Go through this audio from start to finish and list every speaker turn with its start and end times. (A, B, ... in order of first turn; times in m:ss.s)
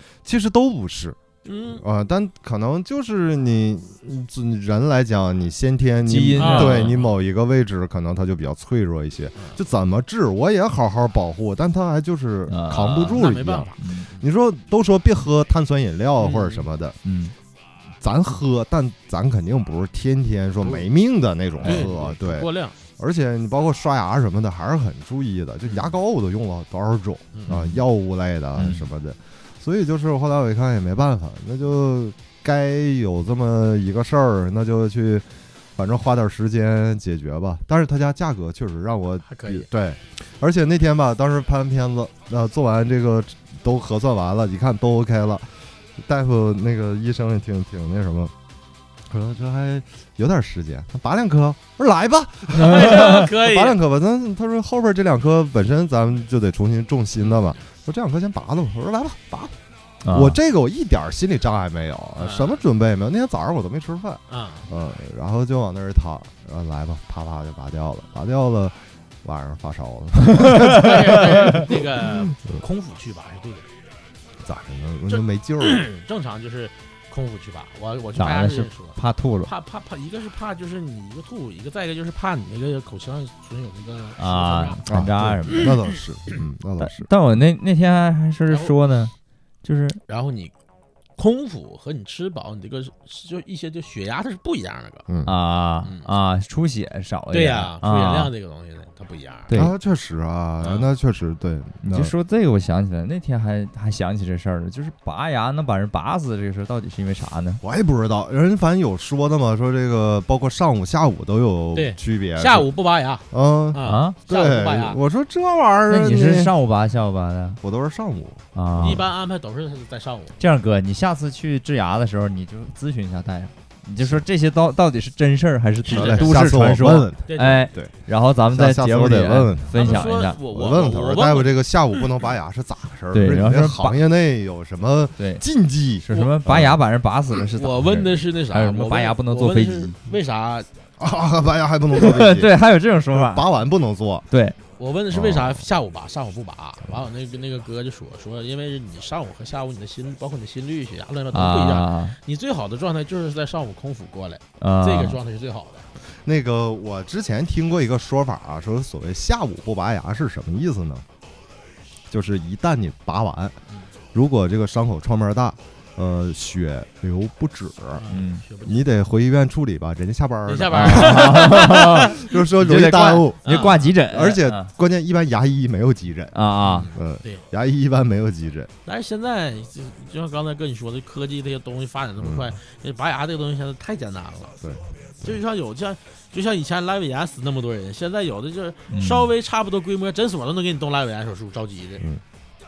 0:00.2-0:01.2 A
0:01.4-0:01.8 B
0:01.7-0:17.0 A
0:06.0-0:06.9 C
0:06.4-0:07.1 B
0:12.5-0:13.2 C
0:13.1-0:14.2 B
0:13.8-0:14.1 C
0:16.2-0:16.6 B
0:17.0-0:17.3 C
0:18.0-0:48.3 A
0:21.6-0:22.8 B
0:25.7-0:25.9 B
0:27.3-0:27.8 B
0:28.6-0:28.8 C
0:39.3-0:39.7 B
0:49.1-0:59.6 A
0:52.6-0:53.2 C
0:52.6-0:53.8 B
0:57.2-0:57.6 B
1:00.0-1:00.4 C
1:00.1-1:12.0 A
1:02.2-1:02.6 B
1:04.3-1:04.7 B
1:10.3-1:10.9 C
1:10.7-1:13.7 B
1:14.4-1:15.9 A
1:15.1-1:24.8 B
1:18.2-1:19.5 C
1:24.2-1:25.7 C
1:24.9-1:27.1 A
1:26.8-1:29.1 C
1:28.5-1:28.7 B
1:29.6-1:30.0 C
1:30.1-1:30.5 B
1:31.2-1:35.0 B
1:35.1-1:35.3 A
1:35.2-1:38.3 C
1:35.8-1:36.1 B
1:37.3-1:39.5 B
1:39.5-1:42.1 A
1:40.6-1:40.9 B
1:41.8-1:47.6 C
1:47.6-1:52.7 A
1:51.7-1:55.0 B
1:53.3-1:56.5 A
1:53.8-1:54.2 C
1:55.9-1:57.6 C
1:57.6-1:59.0 A
1:58.5-1:59.0 C
1:58.8-2:00.4 B
2:00.4-2:10.4 C
2:05.9-2:06.4 B
2:05.9-2:07.9 A
2:07.3-2:07.7 B
2:08.5-2:16.8 A
2:09.7-2:11.5 B
2:13.1-2:14.0 C
2:15.2-2:15.4 C
2:16.0-2:20.0 C
2:16.1-2:16.4 B
2:17.4-2:20.7 B
2:21.0-2:22.5 A
2:21.9-2:23.4 C
2:23.1-2:24.3 A
2:24.3-2:24.6 C
2:24.8-2:35.8 B
2:25.1-2:25.6 A
2:31.3-2:32.2 C
2:34.6-2:35.2 C
2:36.2-2:41.0 A
2:42.1-2:43.6 A
2:44.1-2:48.0 A
2:48.0-2:48.8 B
2:48.1-2:48.4 C
2:48.6-2:56.4 A
2:50.4-2:52.2 B
2:50.7-2:54.7 C
2:53.4-2:53.9 B
2:56.3-2:56.9 C
2:56.6-2:57.4 B
2:56.9-2:58.7 A
2:58.8-3:04.6 B
3:02.2-3:02.5 A
3:04.6-3:05.4 A
3:05.2-3:12.0 B
3:08.9-3:09.3 C